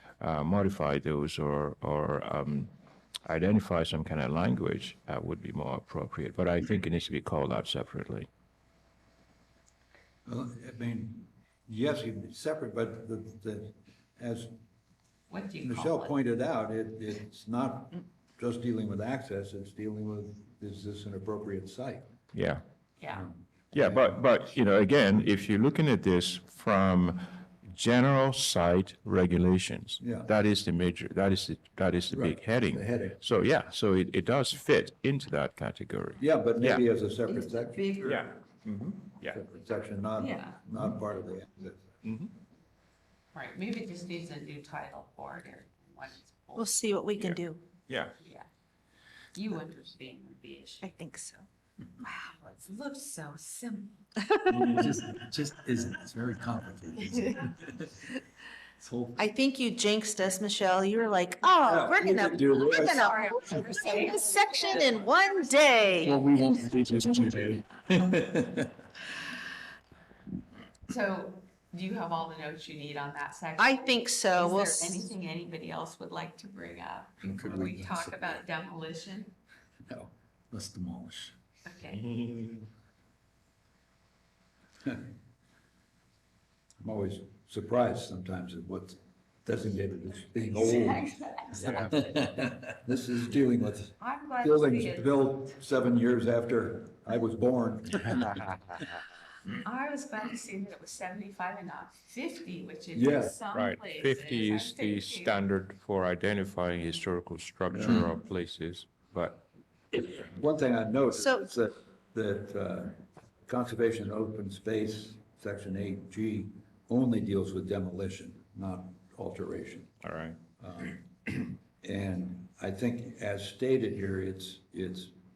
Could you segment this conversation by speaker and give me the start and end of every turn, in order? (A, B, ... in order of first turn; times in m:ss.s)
0:00.2-0:02.7 A
0:03.2-0:08.3 A
0:10.2-0:14.5 B
0:15.3-0:16.1 C
0:15.6-0:22.1 B
0:22.3-0:22.6 A
0:23.0-0:23.2 C
0:23.1-0:24.3 B
0:23.7-0:36.8 A
0:30.0-0:30.3 B
0:32.1-0:33.2 B
0:36.2-0:38.3 B
0:37.3-0:38.1 C
0:38.0-0:39.4 A
0:39.2-0:41.8 B
0:40.2-0:40.6 C
0:42.0-0:42.3 A
0:43.3-0:46.8 C
0:46.5-0:47.6 D
0:47.2-0:48.1 A
0:48.2-0:48.5 C
0:49.3-0:50.9 C
0:50.8-0:51.4 D
0:52.0-0:54.0 C
0:54.2-0:54.8 D
0:54.5-0:57.7 E
0:59.2-1:06.2 D
1:01.6-1:03.6 B
1:02.4-1:06.5 C
1:06.0-1:08.3 E
1:10.9-1:19.3 C
1:13.6-1:15.1 D
1:17.2-1:18.4 E
1:20.5-1:21.3 E
1:21.6-1:22.0 C
1:22.1-1:22.6 A
1:26.8-1:38.4 B
1:30.3-1:32.5 C
1:34.0-1:35.3 C
1:39.5-1:45.4 C
1:42.9-1:43.4 B
1:43.5-1:49.4 A
1:49.9-1:59.9 B
1:51.1-1:51.5 D
2:00.0-2:00.4 A
2:00.6-2:05.1 B